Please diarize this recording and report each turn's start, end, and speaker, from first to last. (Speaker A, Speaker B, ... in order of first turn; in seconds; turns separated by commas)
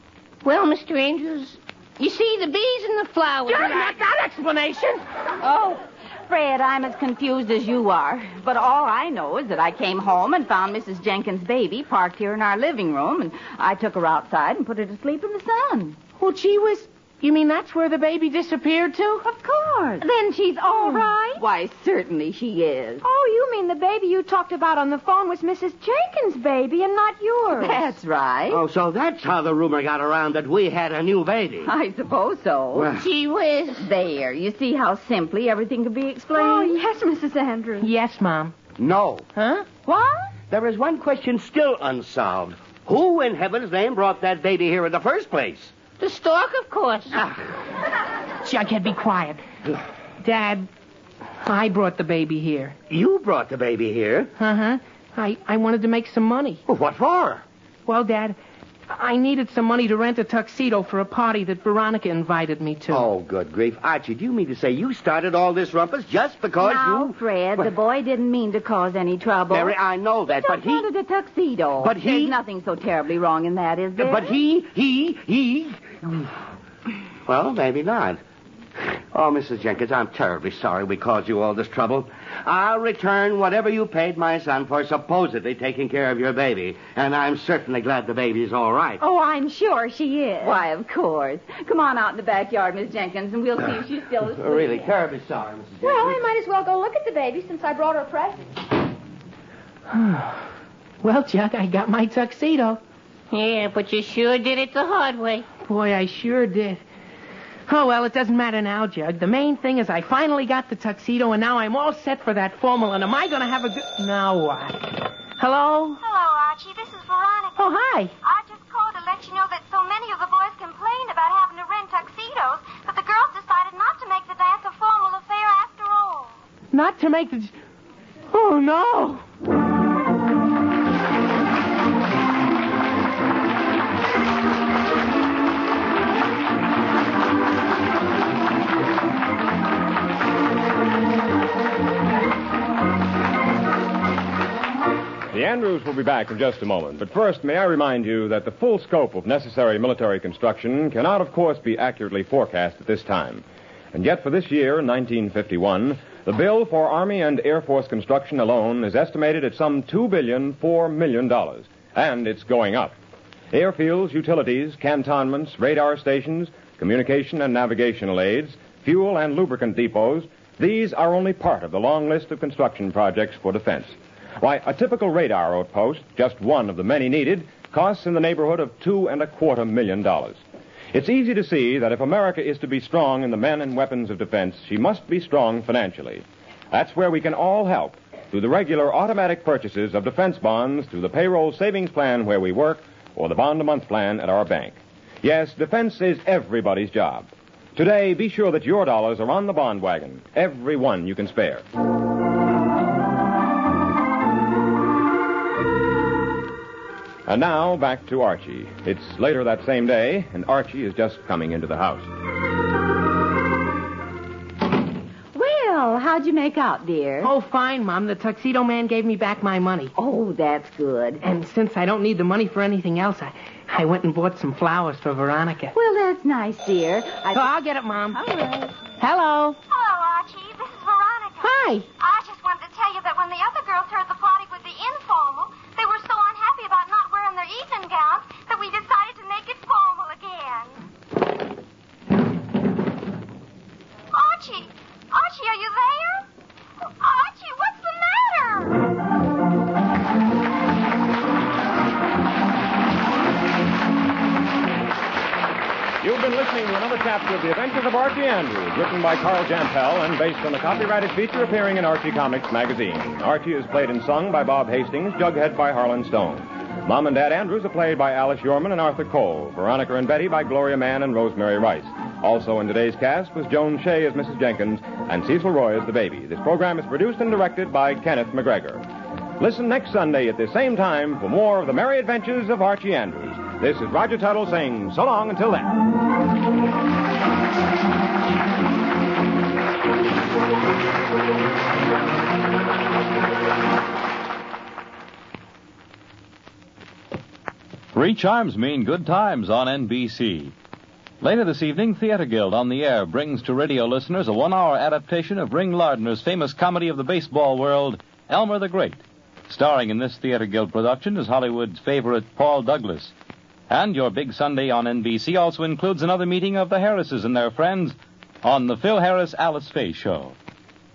Speaker A: 0.4-4.0, Speaker B: 3.5-5.0, Speaker C: 5.4-16.0, Speaker B: 16.2-19.3, Speaker C: 19.2-20.1, Speaker D: 20.0-21.4, Speaker C: 20.6-23.0, Speaker D: 23.0-27.9, Speaker C: 27.5-28.6, Speaker E: 28.5-31.7, Speaker C: 31.6-32.9, Speaker E: 32.7-33.1, Speaker A: 33.0-33.9, Speaker C: 33.8-36.8, Speaker D: 36.3-37.9, Speaker B: 37.8-38.5, Speaker E: 38.8-39.2, Speaker B: 39.3-39.7, Speaker E: 40.5-45.7, Speaker A: 46.0-47.2, Speaker E: 47.1-47.4, Speaker B: 48.4-49.4, Speaker B: 50.2-50.7, Speaker B: 51.4-52.7, Speaker E: 52.9-54.3, Speaker B: 54.4-56.6, Speaker E: 56.6-57.4, Speaker B: 57.9-58.4, Speaker B: 58.9-63.1, Speaker E: 62.9-67.7, Speaker C: 66.6-69.7, Speaker E: 69.5-70.8, Speaker C: 70.3-74.4, Speaker E: 71.8-72.3, Speaker E: 74.0-76.3, Speaker E: 77.3-78.2, Speaker E: 78.8-89.0, Speaker C: 89.0-94.9, Speaker E: 94.3-96.2, Speaker D: 95.8-98.5, Speaker B: 99.9-100.5, Speaker B: 101.0-102.8, Speaker A: 103.3-105.5, Speaker B: 105.6-106.8, Speaker B: 107.7-116.0, Speaker F: 116.0-126.3, Speaker B: 117.5-118.1, Speaker B: 126.7-127.5, Speaker B: 128.3-129.2, Speaker G: 145.3-162.9, Speaker G: 163.5-180.4, Speaker G: 180.9-201.6, Speaker G: 207.3-212.1, Speaker C: 215.3-217.3, Speaker B: 217.2-219.9, Speaker C: 219.9-221.2, Speaker B: 221.2-225.7, Speaker C: 225.7-227.6, Speaker B: 227.3-228.2, Speaker C: 228.1-228.8, Speaker B: 228.9-229.6, Speaker F: 229.7-240.9, Speaker B: 231.4-231.9, Speaker F: 244.1-246.3, Speaker F: 246.9-248.9, Speaker G: 256.0-278.9, Speaker G: 279.4-285.8, Speaker H: 297.9-300.5, Speaker H: 301.2-313.1, Speaker H: 313.7-320.3